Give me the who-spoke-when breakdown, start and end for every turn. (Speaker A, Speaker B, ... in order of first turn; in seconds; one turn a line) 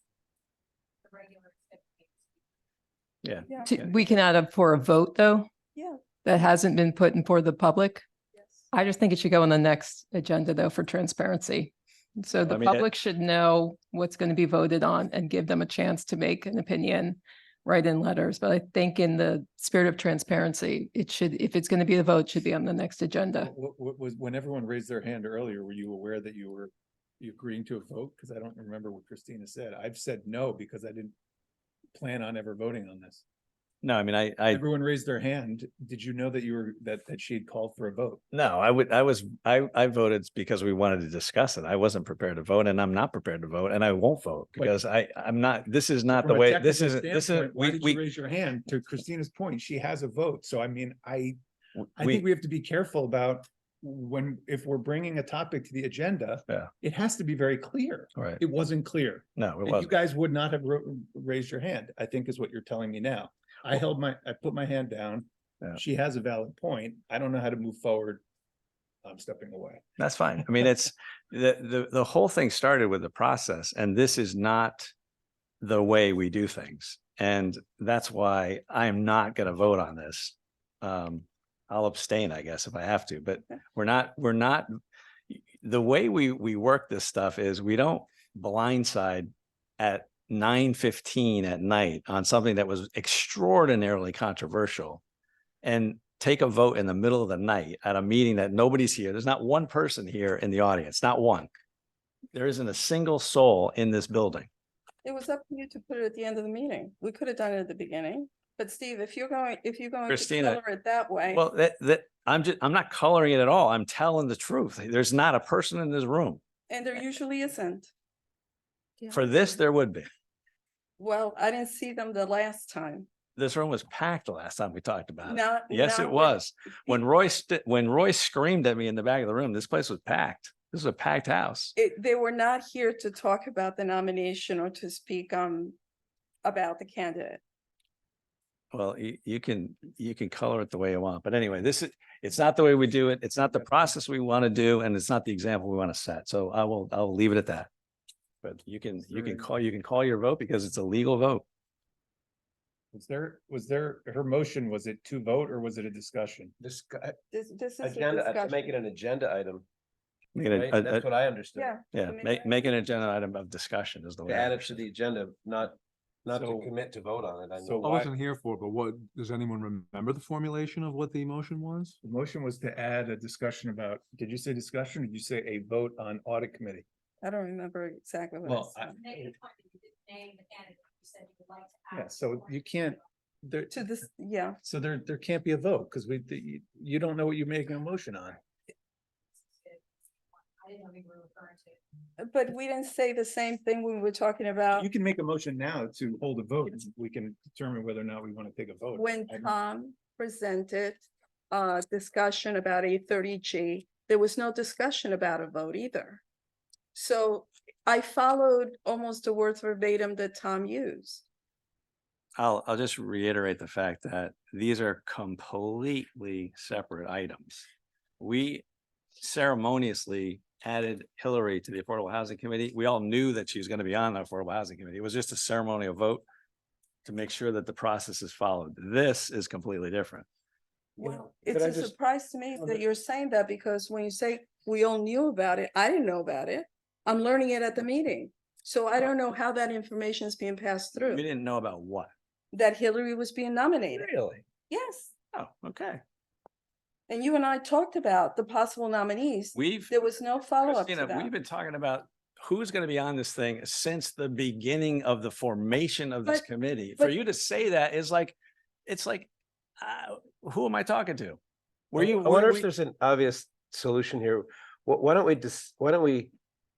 Speaker A: 1.1-2.1
Speaker B: 3.2-4.0
Speaker C: 3.6-5.5
Speaker D: 5.7-6.0
Speaker C: 6.2-8.0
Speaker C: 8.7-23.5
Speaker B: 12.4-12.8
Speaker E: 23.4-31.1
Speaker E: 31.9-33.2
Speaker B: 33.8-34.6
Speaker E: 34.5-38.2
Speaker B: 38.3-48.0
Speaker E: 46.1-51.4
Speaker B: 51.8-52.2
Speaker E: 52.0-68.2
Speaker B: 59.4-59.9
Speaker E: 69.0-69.8
Speaker B: 70.0-74.9
Speaker B: 75.6-84.7
Speaker B: 85.3-95.0
Speaker B: 95.6-101.5
Speaker B: 102.3-104.5
Speaker D: 105.0-111.4
Speaker B: 110.1-110.6
Speaker B: 111.3-116.4
Speaker D: 116.7-117.9
Speaker B: 119.1-120.1
Speaker D: 121.0-123.1
Speaker B: 123.4-131.7
Speaker D: 125.2-126.9
Speaker D: 131.8-135.8
Speaker D: 136.4-137.4
Speaker B: 138.7-147.7
Speaker B: 148.4-151.4
Speaker E: 149.1-149.4
Speaker E: 152.9-156.5
Speaker F: 156.6-157.2
Speaker D: 157.3-158.7
Speaker F: 157.8-159.6
Speaker B: 160.3-161.1
Speaker F: 160.5-161.7
Speaker D: 161.5-162.7
Speaker B: 161.9-164.8
Speaker F: 164.3-167.8
Speaker E: 166.3-166.7
Speaker E: 167.6-168.1
Speaker G: 167.8-172.0
Speaker E: 172.0-176.8
Speaker D: 177.2-179.0
Speaker E: 178.4-179.3
Speaker A: 179.1-182.0
Speaker E: 181.9-183.8
Speaker D: 183.7-184.6
Speaker E: 184.6-188.4
Speaker A: 190.6-191.8
Speaker D: 192.2-194.8
Speaker E: 194.7-199.5
Speaker D: 198.9-206.2
Speaker D: 206.9-211.2
Speaker B: 212.4-217.6
Speaker B: 218.2-218.6
Speaker B: 219.2-226.2
Speaker B: 227.0-230.2
Speaker D: 231.0-241.2
Speaker F: 231.0-231.9
Speaker F: 232.5-232.8
Speaker B: 240.9-242.1
Speaker D: 242.5-244.1
Speaker B: 243.9-244.4
Speaker D: 244.7-245.1
Speaker B: 245.3-246.0
Speaker D: 247.1-251.3
Speaker B: 249.5-250.0
Speaker B: 250.6-261.4
Speaker B: 261.9-262.7
Speaker F: 261.9-266.3